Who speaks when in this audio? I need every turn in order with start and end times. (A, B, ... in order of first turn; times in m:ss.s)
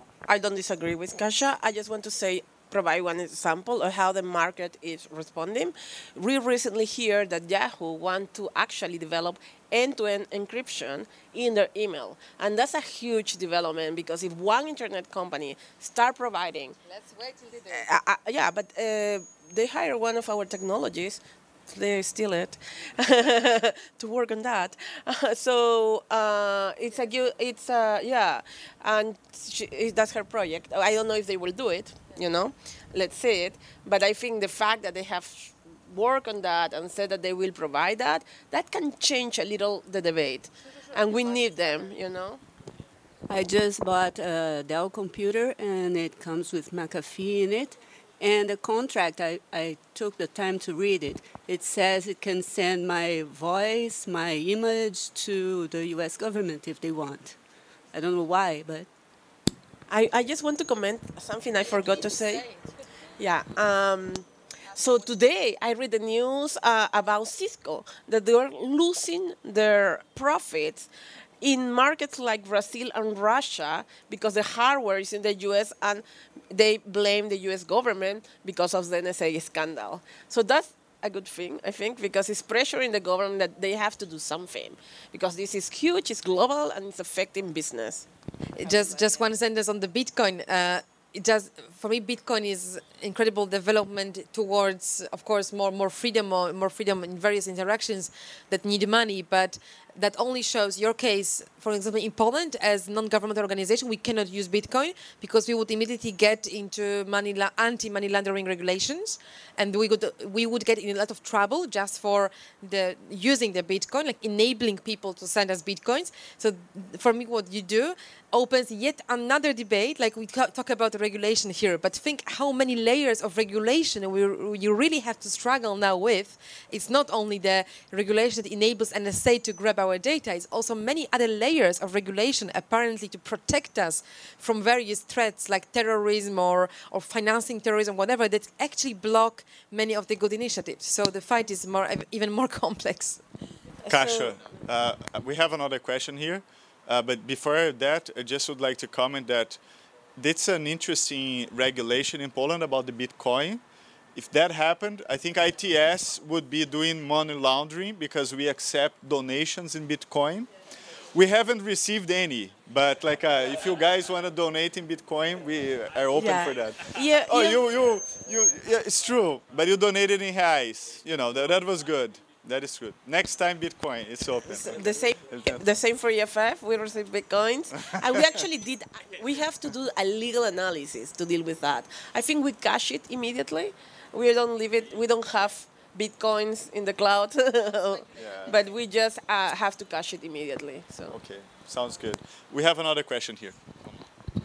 0:00.3-0:16.8 A
0:16.9-0:17.9 B
0:17.7-0:42.4 A
0:43.3-0:57.4 C
0:57.9-0:58.9 C
0:59.9-1:02.5 A
1:03.2-1:10.9 A
1:11.4-1:28.1 A
1:28.6-2:23.2 B
2:23.9-2:24.4 A
2:23.9-2:29.6 D
2:30.2-2:33.6 D
2:34.2-2:40.5 D
2:41.1-2:55.7 D
2:46.2-2:47.6 A
2:54.5-3:11.2 A
3:08.2-3:08.6 D
3:11.1-3:13.9 D